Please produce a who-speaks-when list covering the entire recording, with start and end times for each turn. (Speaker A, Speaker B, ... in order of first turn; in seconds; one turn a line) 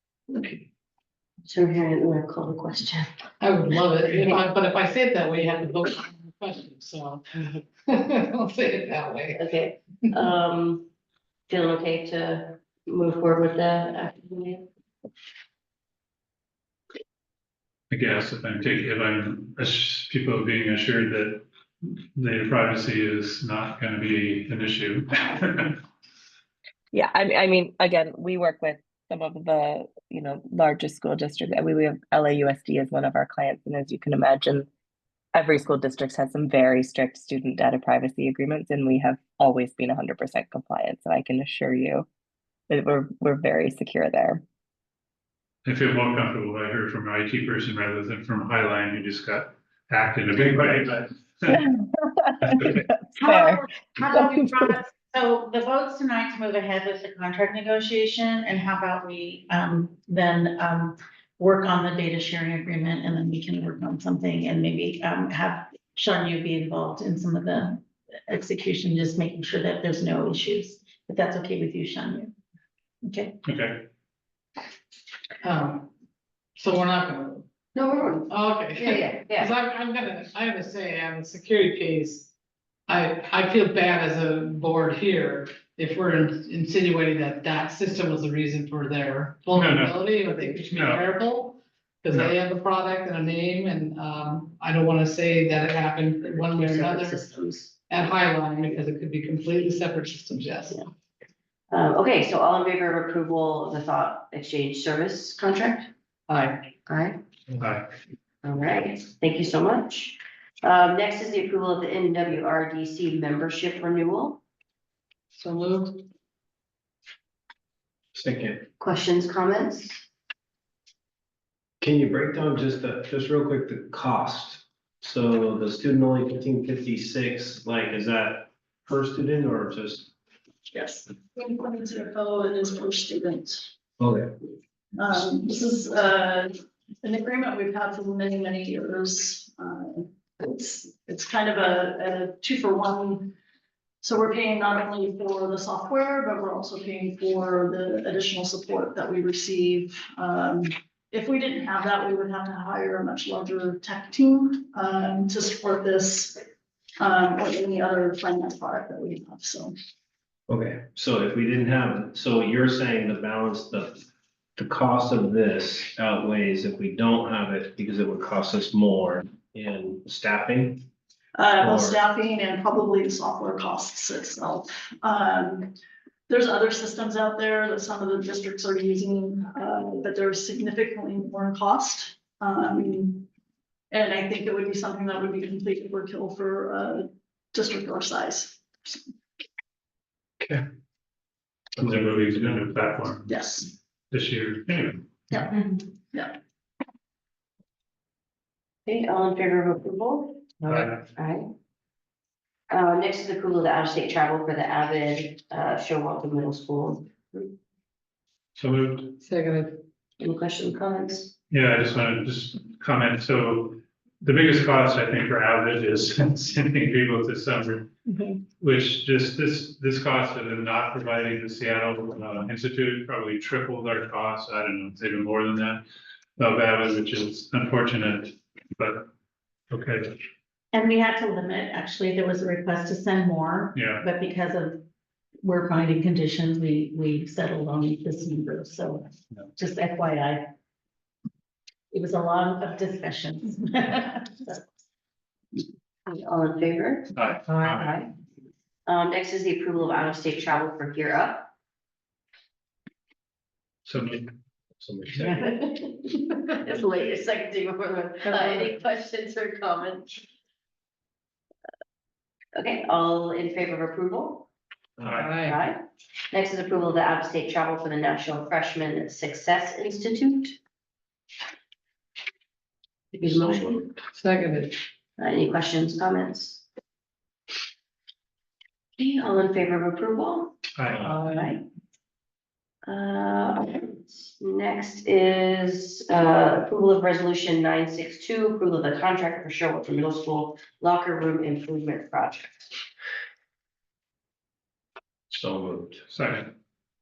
Speaker A: 1.4-3.1
Speaker B: 3.4-9.4
Speaker A: 4.0-4.4
Speaker A: 9.3-10.9
Speaker A: 11.5-14.7
Speaker C: 17.9-25.8
Speaker D: 26.9-34.7
Speaker D: 35.3-42.1
Speaker D: 42.7-44.4
Speaker C: 45.6-51.6
Speaker D: 51.5-51.9
Speaker D: 52.4-53.6
Speaker C: 52.4-52.8
Speaker E: 53.2-72.3
Speaker E: 73.0-73.3
Speaker C: 73.4-73.9
Speaker B: 75.4-75.9
Speaker B: 76.5-77.5
Speaker A: 77.7-79.5
Speaker B: 78.3-82.3
Speaker B: 82.9-97.2
Speaker C: 89.5-90.0
Speaker C: 90.7-91.0
Speaker A: 96.3-97.7
Speaker B: 97.9-100.8
Speaker A: 101.7-105.9
Speaker B: 106.3-106.7
Speaker A: 106.8-107.2
Speaker C: 107.6-107.9
Speaker A: 108.4-114.4
Speaker B: 115.3-116.0
Speaker F: 118.1-118.7
Speaker A: 118.8-120.1
Speaker F: 121.8-130.1
Speaker G: 130.7-133.7
Speaker F: 134.0-134.3
Speaker G: 134.9-143.3
Speaker G: 144.0-156.4
Speaker G: 157.0-159.8
Speaker F: 160.5-164.0
Speaker F: 164.6-170.8
Speaker G: 171.3-175.7
Speaker F: 171.6-172.0
Speaker G: 176.3-183.2
Speaker G: 183.9-189.0
Speaker F: 191.8-192.6
Speaker C: 191.8-193.3
Speaker G: 193.3-193.7
Speaker C: 194.1-195.4
Speaker G: 195.3-196.3
Speaker A: 198.8-201.5
Speaker C: 200.6-201.0
Speaker A: 202.7-207.5
Speaker C: 208.6-209.2
Speaker B: 209.2-209.8
Speaker A: 210.2-211.3
Speaker C: 211.5-217.9
Speaker E: 218.1-218.4
Speaker C: 218.6-225.8
Speaker C: 226.4-229.1
Speaker C: 229.7-230.2
Speaker E: 230.7-234.8
Speaker C: 233.7-234.0
Speaker E: 235.4-240.5
Speaker E: 241.9-244.6
Speaker A: 246.1-248.1
Speaker C: 247.1-247.9
Speaker A: 248.8-251.5
Speaker C: 253.8-254.2
Speaker F: 254.8-255.4
Speaker A: 255.3-260.1
Speaker B: 258.3-258.7
Speaker A: 262.5-264.5
Speaker F: 265.0-265.3
Speaker B: 265.1-265.6
Speaker A: 265.4-270.6
Speaker A: 273.1-273.8
Speaker F: 273.2-274.0
Speaker B: 274.1-274.8
Speaker A: 275.2-276.6
Speaker A: 279.0-280.6
Speaker C: 280.8-281.1
Speaker F: 280.9-281.1
Speaker B: 281.0-281.5
Speaker A: 281.3-281.6
Speaker A: 282.9-292.7
Speaker F: 295.3-296.1
Speaker C: 296.1-296.5